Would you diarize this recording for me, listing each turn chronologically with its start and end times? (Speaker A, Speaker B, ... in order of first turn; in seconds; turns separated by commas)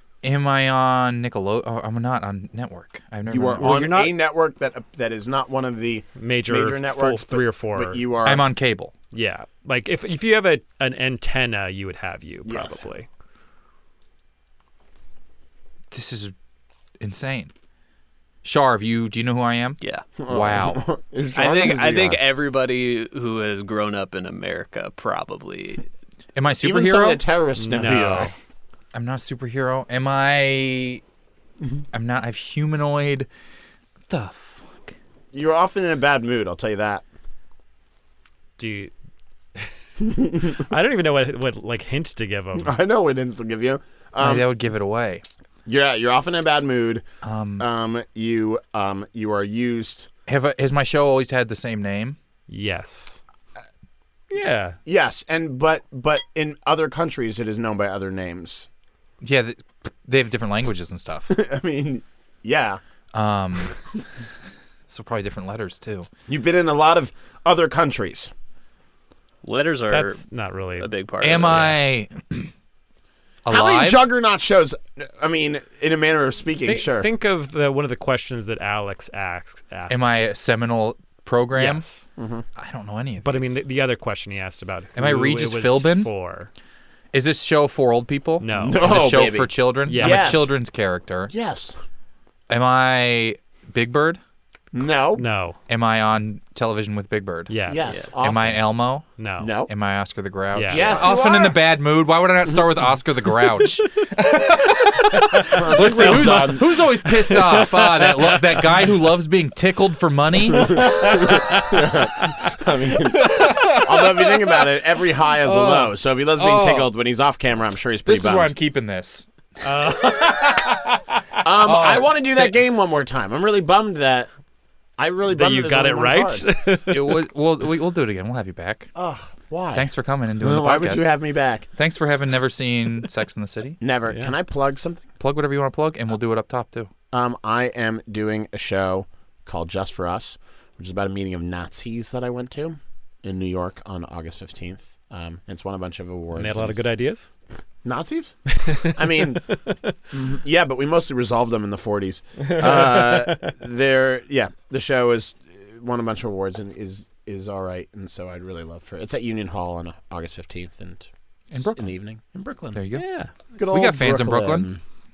Speaker A: 0.2-3.7, Speaker B: 3.3-8.4, Speaker C: 3.6-4.2, Speaker C: 6.2-8.0, Speaker A: 8.2-8.9, Speaker C: 9.1-13.1, Speaker B: 12.4-12.9, Speaker A: 15.9-16.3, Speaker A: 17.0-17.5, Speaker A: 18.4-20.8, Speaker D: 19.8-20.1, Speaker B: 20.2-22.2, Speaker D: 21.4-25.9, Speaker A: 26.4-27.2, Speaker B: 26.6-28.3, Speaker C: 27.6-28.3, Speaker A: 28.9-31.0, Speaker A: 31.9-33.3, Speaker A: 34.1-35.0, Speaker B: 35.3-37.0, Speaker C: 38.6-38.9, Speaker C: 39.5-42.8, Speaker B: 42.5-44.5, Speaker A: 44.2-45.2, Speaker B: 45.6-47.0, Speaker A: 47.2-47.6, Speaker B: 47.6-50.1, Speaker A: 50.3-52.2, Speaker C: 52.5-53.2, Speaker C: 54.3-54.8, Speaker B: 54.8-58.7, Speaker A: 59.2-61.4, Speaker B: 61.3-62.8, Speaker A: 63.1-63.7, Speaker A: 64.9-66.1, Speaker B: 66.3-68.3, Speaker D: 69.4-70.2, Speaker C: 69.9-70.9, Speaker D: 70.8-71.7, Speaker A: 71.2-72.5, Speaker A: 73.4-74.0, Speaker B: 73.5-77.1, Speaker C: 76.6-80.2, Speaker A: 79.9-81.8, Speaker C: 81.5-82.1, Speaker B: 82.2-82.4, Speaker A: 82.5-83.6, Speaker C: 83.2-86.5, Speaker A: 85.0-86.1, Speaker A: 87.1-91.3, Speaker C: 88.4-89.2, Speaker B: 88.5-90.5, Speaker C: 89.9-90.5, Speaker B: 91.3-91.7, Speaker A: 92.5-94.2, Speaker B: 94.7-95.2, Speaker C: 95.1-95.6, Speaker A: 95.7-97.5, Speaker C: 97.5-97.9, Speaker B: 97.7-98.6, Speaker A: 98.2-99.1, Speaker C: 99.2-99.5, Speaker B: 99.4-99.7, Speaker A: 99.7-111.9, Speaker C: 100.5-101.2, Speaker B: 100.7-101.6, Speaker B: 105.5-106.7, Speaker C: 105.9-108.6, Speaker B: 110.5-118.5, Speaker C: 110.7-111.4, Speaker A: 113.0-114.7, Speaker A: 115.4-116.9, Speaker A: 118.0-122.6, Speaker C: 119.6-120.7, Speaker B: 121.4-124.3, Speaker B: 125.0-126.5, Speaker C: 125.3-127.1, Speaker A: 126.9-128.9, Speaker B: 128.9-131.7, Speaker A: 129.7-131.1, Speaker A: 131.7-133.8, Speaker B: 133.8-135.1, Speaker A: 135.2-136.9, Speaker B: 137.1-146.8, Speaker C: 146.3-147.3, Speaker B: 147.8-149.5, Speaker C: 148.5-149.8, Speaker B: 150.1-162.8, Speaker C: 152.5-153.4, Speaker A: 161.5-161.9, Speaker A: 162.7-163.0, Speaker C: 162.9-163.3, Speaker B: 163.5-164.8, Speaker A: 163.7-164.7